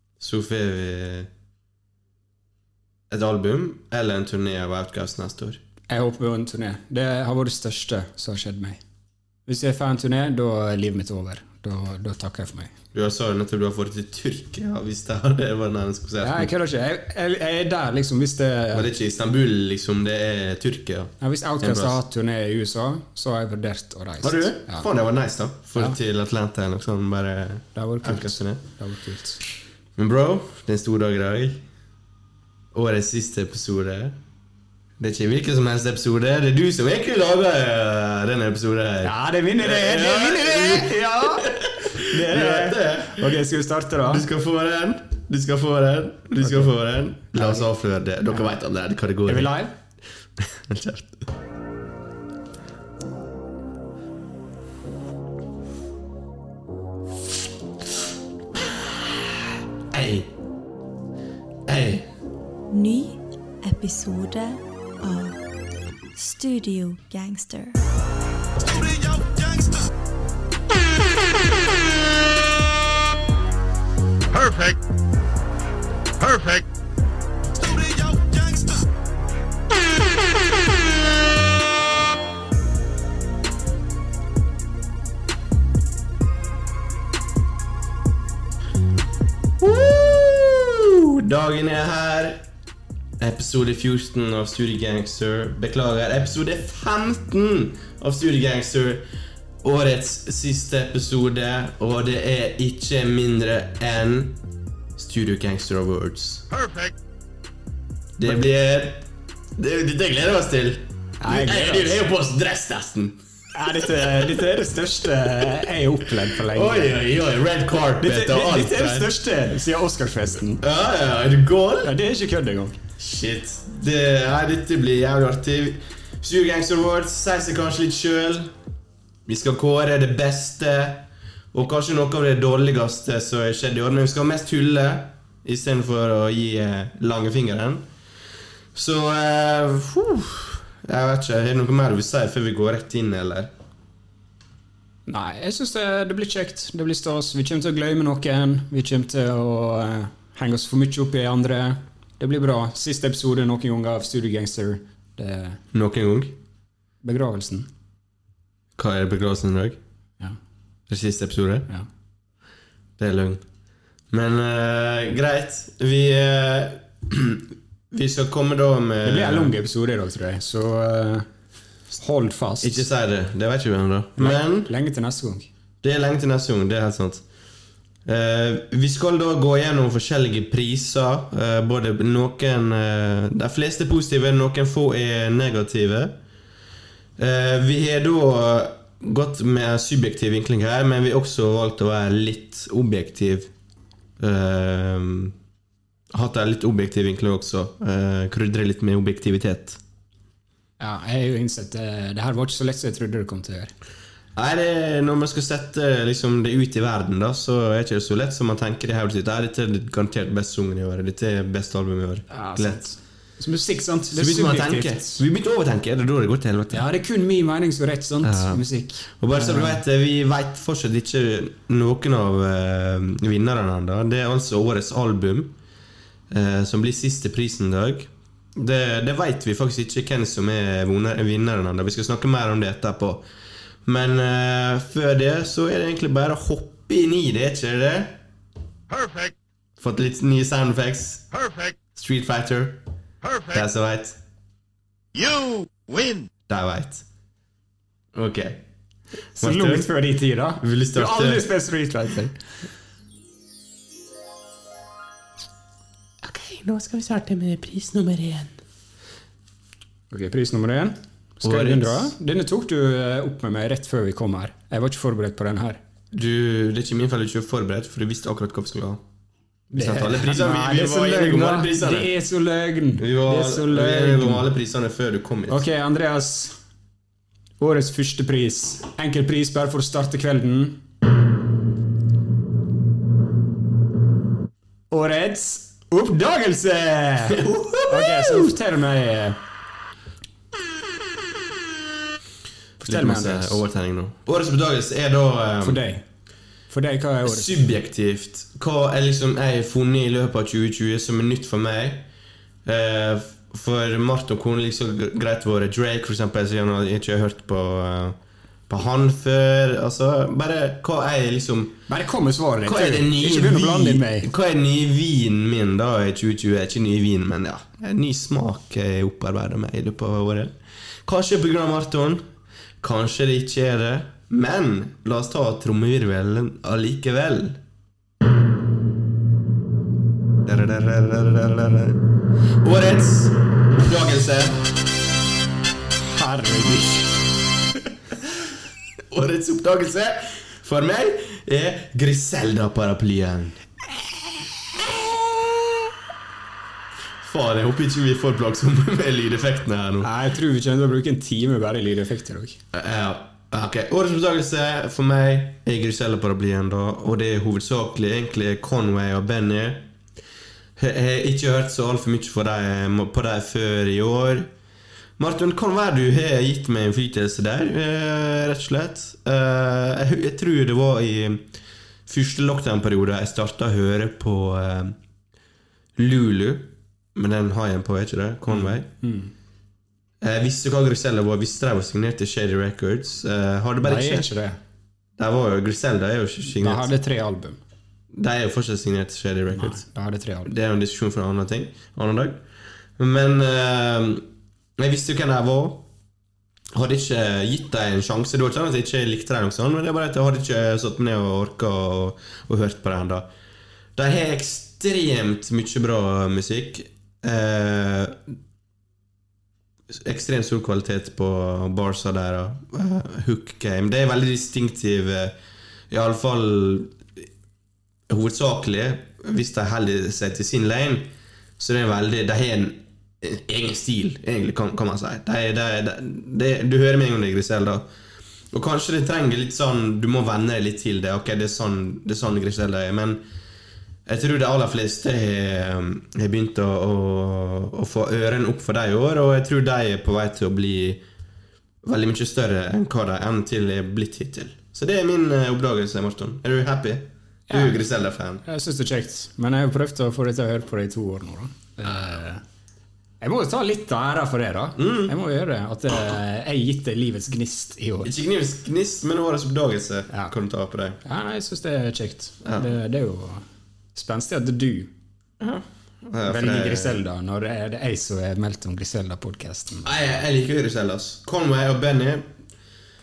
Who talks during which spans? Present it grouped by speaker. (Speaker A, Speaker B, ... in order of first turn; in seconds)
Speaker A: 0.2-1.3, 3.1-5.6, 12.9-16.5, 18.7-22.0, 24.2-28.6, 30.0-31.6, 32.7-34.2, 35.0-43.4, 44.1-49.6, 50.4-51.2, 59.9-60.3, 61.7-62.1, 89.6-92.4, 93.2-99.0, 99.6-104.4, 105.0-106.5, 108.2-109.0, 109.6-113.2, 116.5-119.1, 120.6-121.9, 123.0-128.5, 129.3-137.8, 138.8-143.5, 155.7-156.4, 158.8-159.8, 160.9-161.7, 163.0-163.4, 164.1-169.5, 172.6-174.7, 175.8-177.2, 178.1-186.2, 187.2-193.5, 194.2-195.3, 196.1-199.8, 204.3-212.8, 214.1-216.9, 218.2-218.6, 219.1-225.5, 226.3-233.2, 233.9-238.2, 239.8-241.3, 241.9-242.8, 243.3-244.2, 246.5-247.0, 248.2-248.6, 249.4-249.9, 250.6-251.5, 256.2-258.6, 261.4-262.1, 266.1-269.0, 269.7-272.1, 273.0-275.6, 287.3-288.5, 292.8-295.8, 297.3-302.1, 302.7-308.2, 308.7-311.8, 312.6-320.5, 321.1-322.2, 322.8-327.6, 330.4-332.0, 332.6-334.6, 339.1-343.6, 347.2-350.1, 352.7-359.9, 360.8-364.5, 365.2-371.5, 372.1-375.0, 376.0-378.9, 380.2-384.3, 385.2-386.9, 388.1-389.8, 390.5-392.4, 393.0-394.3, 394.8-395.9, 396.7-403.3, 404.0-408.3, 409.9-415.4, 415.9-417.0, 418.1-427.9, 428.5-433.2, 434.1-441.0, 441.8-448.4, 454.8-455.2, 458.0-461.0, 462.4-462.7, 465.4-467.0, 469.9-472.3
Speaker B: 5.9-8.8, 9.5-12.7, 16.2-18.9, 21.2-24.9, 27.8-29.4, 39.0-44.3, 46.4-46.7, 47.3-47.7, 49.2-49.8, 111.2-112.0, 113.5-117.0, 118.0-120.6, 121.8-122.8, 145.1-155.6, 157.0-157.7, 169.0-171.3, 171.9-172.9, 174.2-175.5, 200.8-203.7, 212.3-215.2, 216.7-219.8, 249.4-252.4, 260.1-265.8, 269.7-274.5, 275.5-276.6, 277.6-280.8, 284.9-289.4, 292.8-293.6, 295.6-296.1, 296.7-297.7, 311.9-314.3, 336.0-337.4, 343.9-345.9, 350.0-352.6, 378.5-379.3, 383.8-384.6, 386.5-387.6, 389.5-390.5, 447.5-447.8, 448.4-452.4, 453.2-458.1, 461.0-464.9, 466.2-469.9
Speaker C: 62.7-65.4, 66.2-67.8
Speaker D: 68.7-69.8, 77.6-78.8, 245.3-246.2